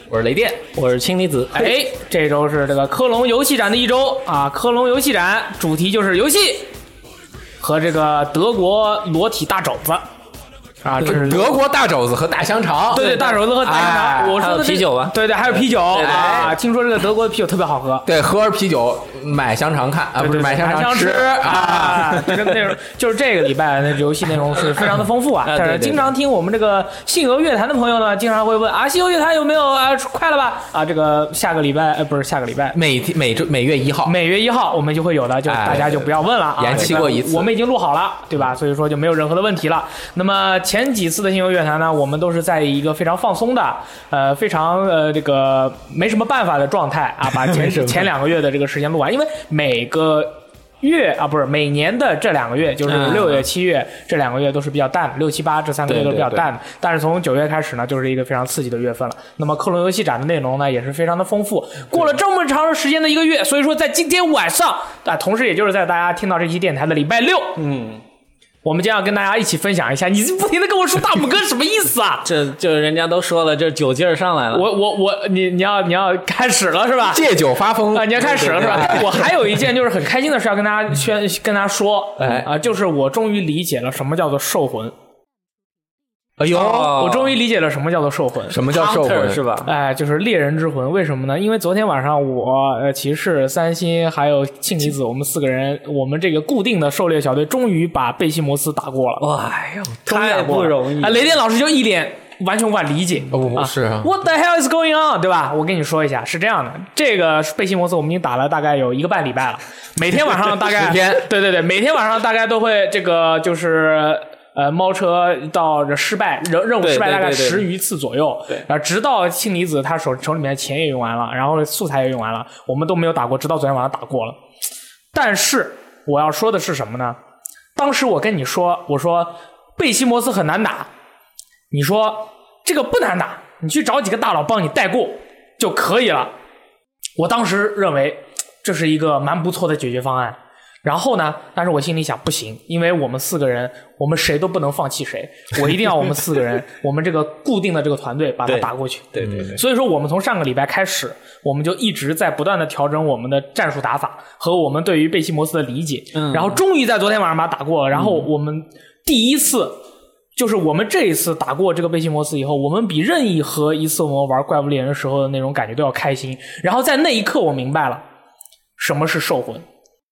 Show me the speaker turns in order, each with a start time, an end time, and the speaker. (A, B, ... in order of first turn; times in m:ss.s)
0:00.1-0:00.6 A
0:00.7-0:01.8 B
0:01.6-0:06.7 C
0:07.6-0:10.1 C
0:10.8-0:11.6 C
0:11.0-0:14.4 A
0:12.9-0:18.1 C
0:12.9-0:13.5 B
0:14.4-0:16.6 B
0:16.0-0:16.6 A
0:18.0-0:22.4 A
0:20.2-0:32.8 C
0:25.4-0:26.1 B
0:32.7-0:34.2 A
0:34.0-1:07.6 C
0:35.5-0:37.5 A
0:36.7-0:37.1 B
0:47.7-0:48.0 B
0:52.9-0:53.4 B
0:55.9-0:56.5 B
1:07.6-1:08.0 B
1:08.6-1:12.3 C
1:12.2-1:14.7 B
1:14.5-1:17.3 C
1:17.1-1:19.0 A
1:17.9-1:24.9 C
1:18.2-1:19.3 B
1:22.2-1:22.5 A
1:26.4-1:27.0 A
1:26.5-1:28.9 C
1:26.5-1:27.3 B
1:28.5-1:29.5 A
1:28.8-1:29.7 B
1:29.6-1:39.3 C
1:39.2-1:41.3 B
1:40.1-2:04.4 C
1:43.3-1:44.1 A
1:50.7-1:51.3 A
1:56.8-1:57.7 B
2:05.1-2:07.2 C
2:07.8-2:10.9 C
2:11.7-2:16.3 C
2:17.2-2:39.8 C
2:28.5-2:29.6 B
2:29.2-2:29.6 A
2:36.1-2:36.6 B
2:38.0-2:38.2 B
2:40.4-2:48.0 C
2:48.8-2:49.6 C